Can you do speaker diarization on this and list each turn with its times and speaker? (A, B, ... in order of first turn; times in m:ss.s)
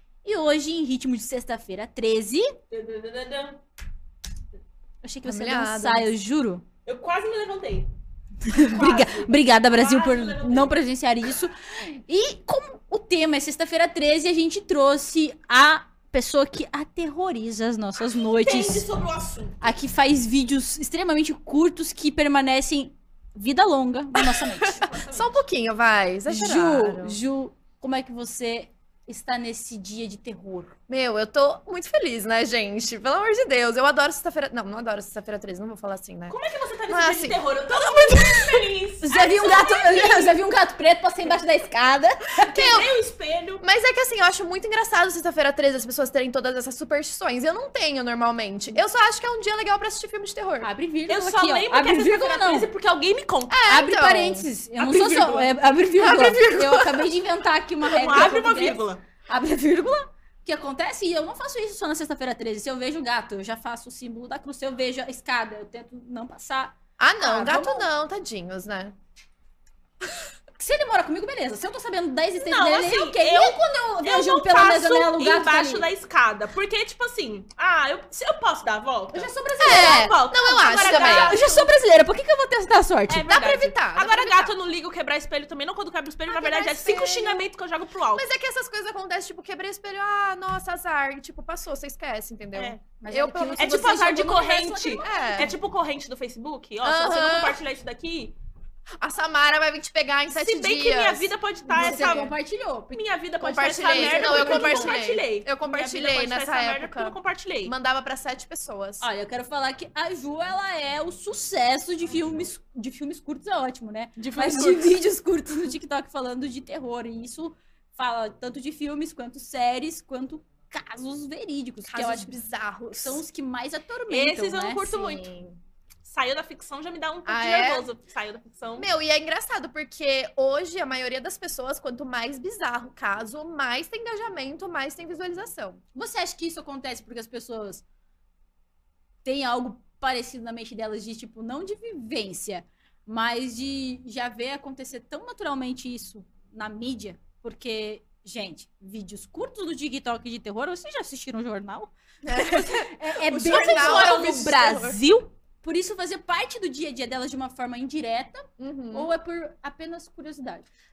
0:00.2-0:02.5 A
0:02.7-0:03.6 B
0:05.0-0:06.6 A
0:05.2-0:06.1 C
0:06.8-0:07.9 B
0:08.5-0:18.8 A
0:08.7-0:10.8 B
0:18.4-0:19.6 B
0:19.6-0:24.9 A
0:24.9-0:25.3 B
0:25.1-0:27.2 C
0:26.3-0:30.8 A
0:30.9-0:36.4 C
0:36.3-0:40.3 B
0:36.9-0:38.6 C
0:39.0-0:42.5 A
0:42.5-0:43.6 B
0:42.5-0:42.9 C
0:43.6-0:50.7 C
0:50.6-0:52.7 A
0:51.1-0:53.6 B
0:53.5-0:54.5 C
0:53.7-1:07.9 A
0:54.8-0:56.4 B
0:56.0-0:57.1 C
0:57.9-0:59.0 B
1:07.0-1:09.0 C
1:10.6-1:15.9 A
1:12.4-1:21.6 B
1:19.1-1:20.0 A
1:19.6-1:21.6 C
1:20.8-1:23.3 A
1:23.1-1:28.3 B
1:23.2-1:24.6 C
1:26.3-1:27.4 C
1:28.1-1:33.9 C
1:32.5-1:32.8 B
1:33.0-1:35.5 A
1:33.6-1:38.3 B
1:35.0-1:35.6 C
1:36.8-1:37.6 C
1:39.0-1:42.2 C
1:40.3-1:42.3 B
1:41.7-1:43.0 A
1:42.9-1:47.7 B
1:43.4-1:49.1 C
1:43.8-1:45.0 A
1:49.0-2:02.3 A
1:54.2-1:55.0 B
2:01.9-2:03.2 C
2:02.9-2:04.9 A
2:04.1-2:05.3 B
2:04.9-2:05.6 C
2:06.0-2:08.9 B
2:07.2-2:07.9 C
2:08.8-2:15.8 C
2:15.9-2:17.8 A
2:19.2-2:34.6 A
2:32.2-2:35.0 C
2:33.3-2:35.3 B
2:35.6-2:40.7 A
2:38.6-2:39.1 C